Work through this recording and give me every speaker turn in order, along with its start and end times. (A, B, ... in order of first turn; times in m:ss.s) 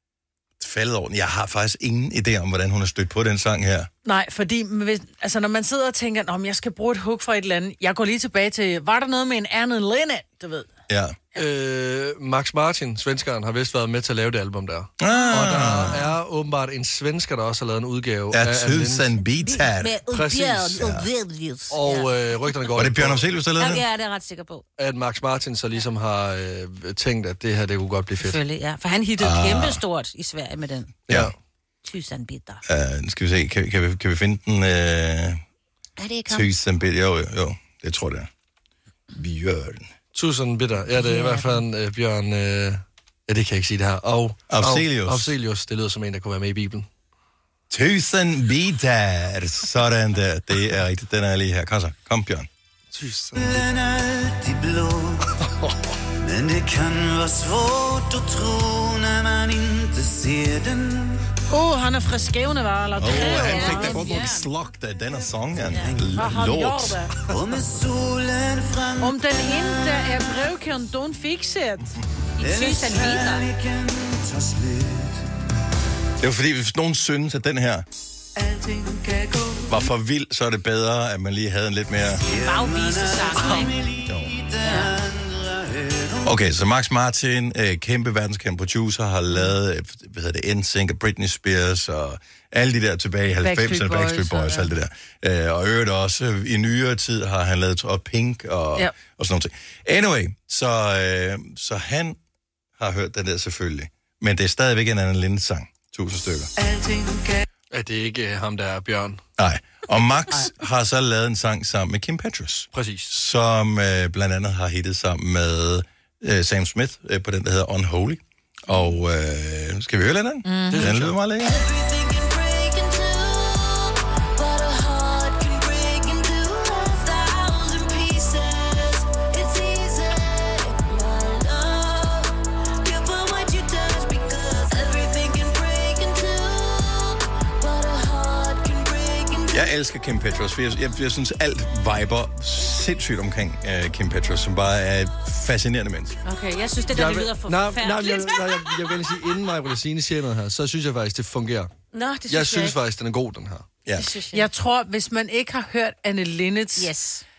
0:00.6-0:03.9 A
0:04.0-0:10.7 B
0:10.9-0:11.2 A
0:11.4-0:19.1 C
0:15.0-0:16.0 A
0:15.1-0:16.0 D
0:18.3-0:20.0 A
0:19.4-0:22.1 D
0:20.1-0:20.8 C
0:20.8-0:21.1 A
0:21.7-0:23.2 C
0:22.8-0:23.8 A
0:23.6-0:24.6 D
0:24.8-0:28.4 C
0:28.2-0:31.0 D
0:29.2-0:29.8 A
0:31.8-0:32.6 D
0:32.7-0:35.4 A
0:36.0-0:36.5 D
0:36.3-0:38.3 A
0:39.1-0:39.9 A
0:40.1-0:46.9 C
0:41.0-0:41.6 D
0:44.5-0:45.4 A
0:47.7-0:52.5 A
0:52.9-0:53.6 C
0:53.4-0:55.3 E
0:56.2-1:01.2 E
1:01.5-1:04.3 B
1:03.0-1:07.0 A
1:03.3-1:04.5 D
1:05.7-1:06.0 D
1:05.9-1:06.2 E
1:06.1-1:07.1 B
1:07.3-1:10.4 E
1:09.0-1:12.0 B
1:12.4-1:13.5 D
1:12.4-1:15.3 E
1:16.2-1:17.8 A
1:18.4-1:19.8 F
1:19.7-1:22.2 A
1:22.2-1:23.8 D
1:22.2-1:26.4 E
1:24.0-1:24.3 A
1:26.2-1:42.2 A
1:33.4-1:34.7 B
1:42.8-1:46.5 A
1:46.6-1:47.5 F
1:47.7-1:49.2 C
1:49.4-2:01.6 A
1:52.7-1:53.1 C
2:00.4-2:00.9 B
2:00.7-2:01.2 C
2:01.4-2:19.7 G
2:19.5-2:26.2 A
2:26.3-2:28.7 D
2:26.9-2:31.7 C
2:31.9-2:32.8 D
2:32.3-2:33.7 C
2:33.9-2:34.1 A
2:34.0-2:34.5 D
2:34.3-2:36.9 B
2:36.8-2:37.2 D